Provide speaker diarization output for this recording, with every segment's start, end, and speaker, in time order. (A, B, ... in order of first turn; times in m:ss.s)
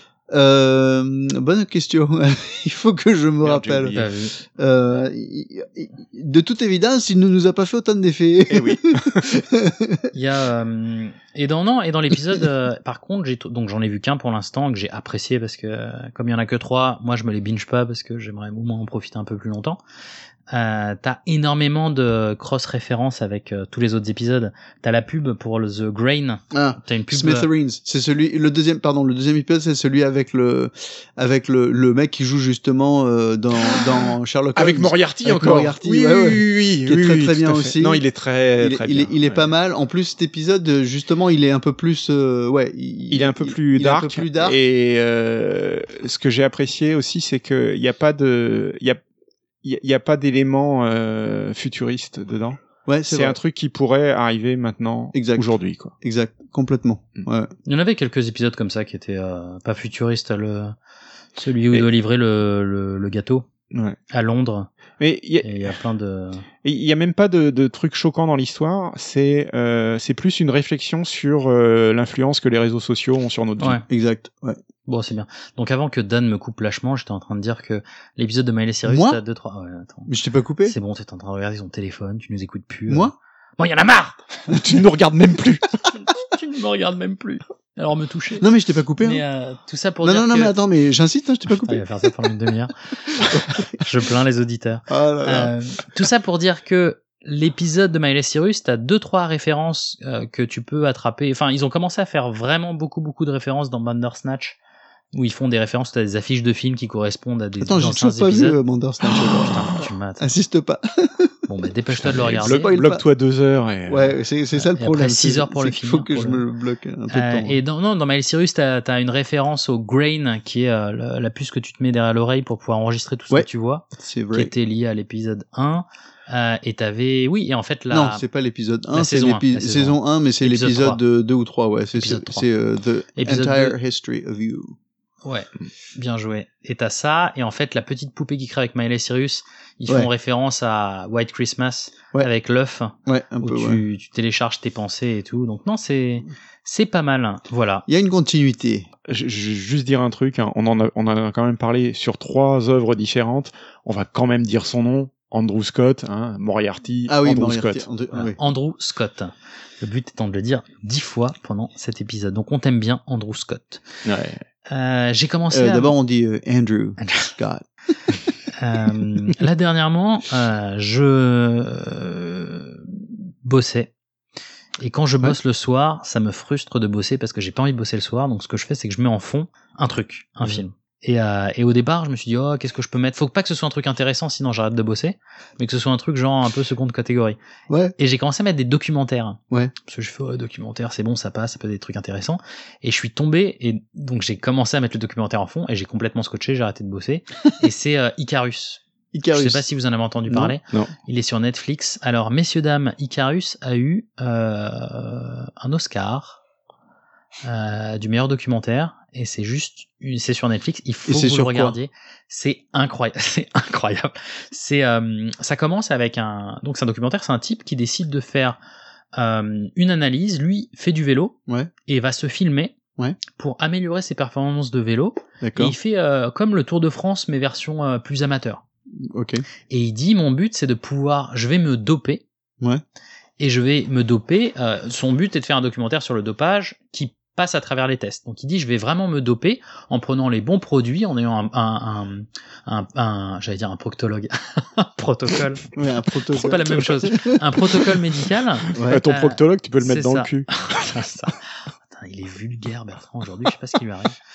0:00.3-0:04.0 A
0:03.4-0:04.1 B
0:04.0-0:04.4 C
0:04.5-0:10.1 A
0:08.5-0:09.3 B
0:10.1-0:19.8 C
0:20.5-0:27.5 C
0:26.5-0:38.0 A
0:33.6-0:39.5 B
0:38.6-0:44.6 A
0:43.1-0:49.0 B
0:49.6-0:55.9 B
0:52.9-0:53.4 A
0:55.1-0:55.5 A
0:56.0-0:57.5 A
0:57.7-1:00.8 C
1:01.4-1:03.5 C
1:03.7-1:04.0 B
1:04.1-1:04.7 C
1:05.0-1:05.8 B
1:05.4-1:06.5 C
1:06.6-1:13.8 B
1:13.6-1:13.8 C
1:13.9-1:14.6 A
1:14.9-1:20.1 C
1:18.8-1:19.2 A
1:20.1-1:20.8 A
1:20.6-1:24.2 C
1:22.9-1:23.1 A
1:24.5-1:25.8 B
1:25.9-1:28.4 C
1:28.4-1:29.2 A
1:29.0-1:30.5 C
1:30.0-1:32.1 A
1:31.6-1:33.2 C
1:33.2-1:33.8 A
1:33.8-1:44.6 C
1:34.9-1:35.5 A
1:45.1-1:48.6 C
1:47.6-1:51.3 A
1:49.2-1:50.3 C
1:51.5-1:52.7 C
1:52.0-1:54.2 B
1:52.4-1:53.0 A
1:53.9-1:57.6 A
1:54.6-1:56.4 C
1:57.1-2:08.2 C
2:03.3-2:04.5 A
2:07.9-2:14.8 A
2:08.9-2:11.0 C
2:12.0-2:12.5 C
2:13.2-2:13.8 C
2:15.2-2:27.9 C
2:23.1-2:23.8 A
2:27.9-2:28.9 A
2:29.1-2:37.8 B
2:37.1-2:38.4 A
2:38.1-2:43.8 C
2:44.0-2:44.4 B
2:44.7-2:46.0 C
2:45.5-2:47.6 A
2:47.0-2:47.3 C
2:48.5-2:53.9 C
2:54.8-3:07.4 C
3:07.7-3:07.9 A
3:08.0-3:18.8 C
3:19.1-3:19.6 A
3:19.3-3:26.4 C
3:20.3-3:20.6 A
3:27.4-3:38.6 C
3:31.1-3:31.8 A
3:39.2-3:41.4 C
3:41.9-3:42.8 C
3:43.3-3:48.6 C
3:45.4-3:45.8 A
3:49.0-3:49.4 A
3:49.7-3:52.2 C
3:53.4-4:05.7 C
4:05.8-4:07.4 A
4:06.3-4:11.4 C
4:08.8-4:09.0 A
4:08.8-4:10.7 B
4:11.9-4:14.2 C